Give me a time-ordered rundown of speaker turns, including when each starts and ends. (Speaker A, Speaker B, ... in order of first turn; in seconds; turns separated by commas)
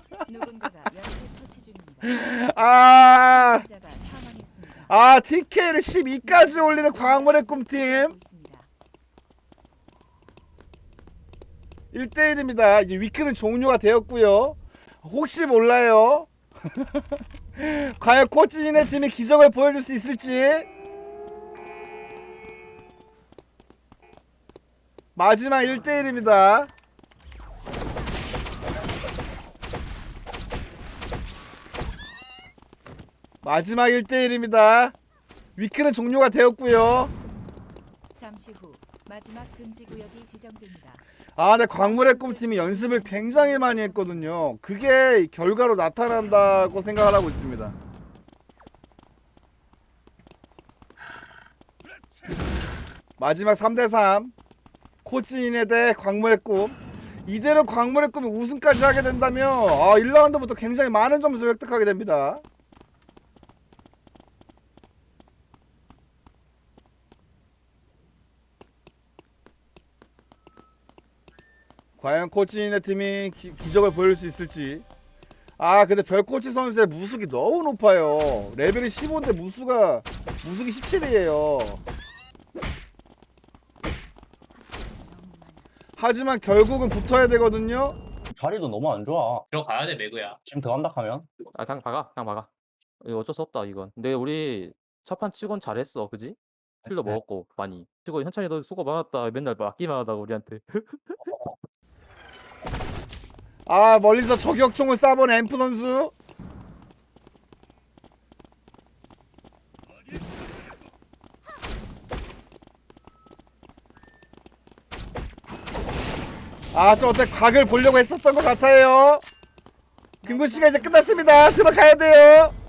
Speaker A: 0.3-2.1, Speaker B: 2.0-3.6, Speaker A: 3.3-4.9, Speaker B: 4.9-8.1, Speaker A: 6.2-8.7, Speaker B: 11.9-17.0, Speaker B: 17.6-20.7, Speaker B: 25.1-26.7, Speaker B: 33.4-35.0, Speaker B: 35.6-37.1, Speaker A: 38.1-41.0, Speaker B: 41.4-47.8, Speaker A: 41.8-44.4, Speaker B: 53.2-54.3, Speaker B: 55.0-62.4, Speaker B: 72.0-74.8, Speaker B: 75.6-81.8, Speaker A: 85.1-85.5, Speaker B: 86.0-88.0, Speaker C: 88.3-89.5, Speaker C: 90.4-91.3, Speaker D: 91.5-92.5, Speaker D: 93.0-96.4, Speaker D: 96.9-101.1, Speaker B: 103.7-106.1, Speaker B: 116.7-119.2, Speaker B: 120.2-122.5, Speaker A: 120.2-121.7